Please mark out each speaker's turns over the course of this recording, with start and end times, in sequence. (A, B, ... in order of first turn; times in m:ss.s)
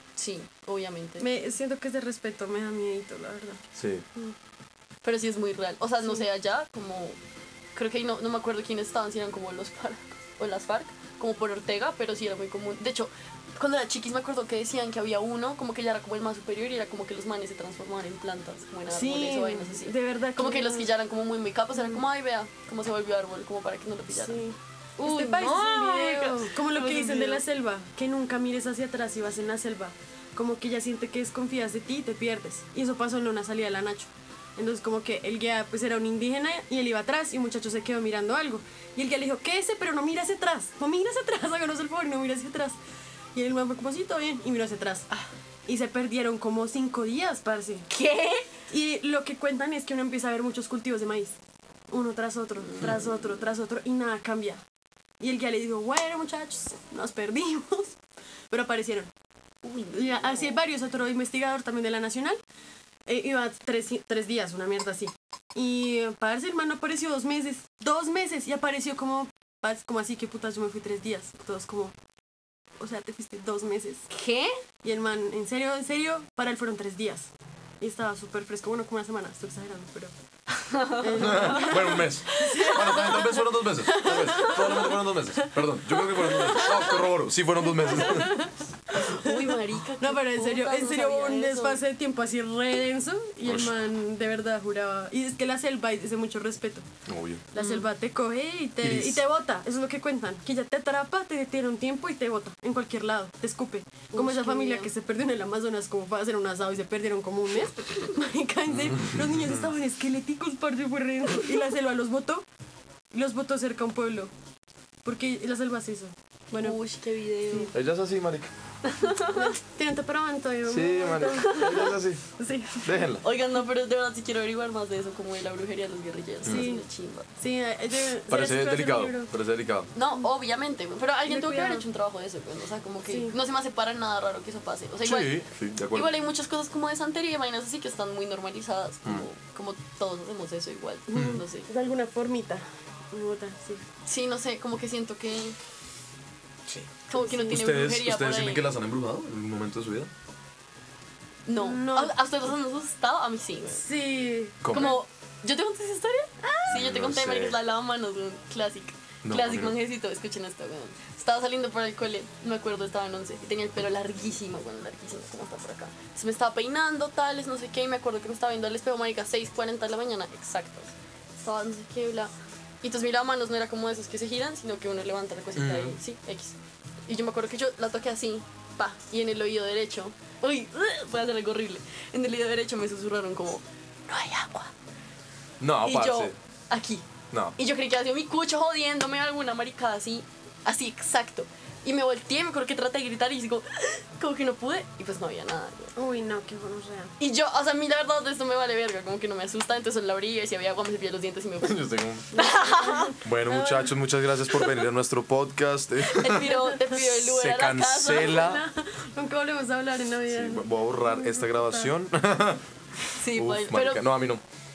0:00.2-0:01.3 A
0:01.2-0:03.6 B
0:03.7-0:04.0 C
0:05.0-0:07.2 A
0:07.7-0:24.4 A
0:18.9-0:20.9 B
0:24.1-0:42.8 B
0:25.0-0:27.4 A
0:43.3-0:45.1 B
0:45.6-0:47.9 B
0:47.9-0:48.5 A
0:48.7-0:51.4 B
0:51.9-0:54.6 B
0:52.7-0:52.9 A
0:55.2-0:57.9 B
0:58.5-0:59.1 B
0:59.6-1:00.6 A
0:59.9-1:02.4 B
1:03.0-1:11.9 B
1:12.8-1:14.1 B
1:14.1-1:14.6 A
1:14.8-1:20.1 B
1:20.7-1:21.0 A
1:20.9-1:27.0 B
1:21.1-1:28.4 C
1:26.6-1:26.9 A
1:27.7-1:36.8 B
1:28.9-1:31.8 A
1:33.4-1:33.7 C
1:37.0-1:37.4 C
1:37.5-1:52.4 B
1:37.5-1:37.9 A
1:38.8-1:39.2 C
1:44.1-1:44.9 A
1:53.1-1:54.3 B
1:55.0-1:56.8 B
1:56.6-1:57.7 A
1:57.7-1:58.5 C
1:58.8-1:59.5 A
1:59.2-2:03.1 B
2:00.6-2:02.2 C
2:02.8-2:03.2 C
2:03.2-2:07.3 A
2:06.4-2:06.8 B
2:07.4-2:09.3 B
2:08.3-2:09.9 C
2:09.9-2:15.4 A
2:11.3-2:11.8 B
2:13.1-2:13.3 B
2:15.0-2:16.1 C
2:15.9-2:21.7 A
2:21.1-2:21.4 C
2:21.2-2:23.8 B
2:24.0-2:25.6 A
2:27.1-2:28.7 A
2:27.1-2:27.6 B
2:27.4-2:30.1 C
2:31.4-2:33.8 A
2:31.6-2:32.1 B
2:33.8-2:35.0 B
2:34.6-2:35.0 C
2:34.7-2:56.6 A
2:36.7-2:37.6 C
2:39.2-2:39.8 C
2:55.6-2:56.0 C
2:57.1-3:04.7 A
3:05.6-3:06.3 C
3:05.8-3:07.0 A
3:07.6-3:15.9 A
3:16.0-3:17.1 B
3:17.2-3:23.2 A
3:21.6-3:22.3 C
3:22.3-3:23.9 B
3:23.2-3:26.5 C
3:26.1-3:28.4 A
3:26.4-3:27.1 B
3:27.1-3:28.6 C
3:28.2-3:31.9 B
3:30.3-3:32.6 C
3:33.2-3:34.0 A
3:33.2-3:34.4 C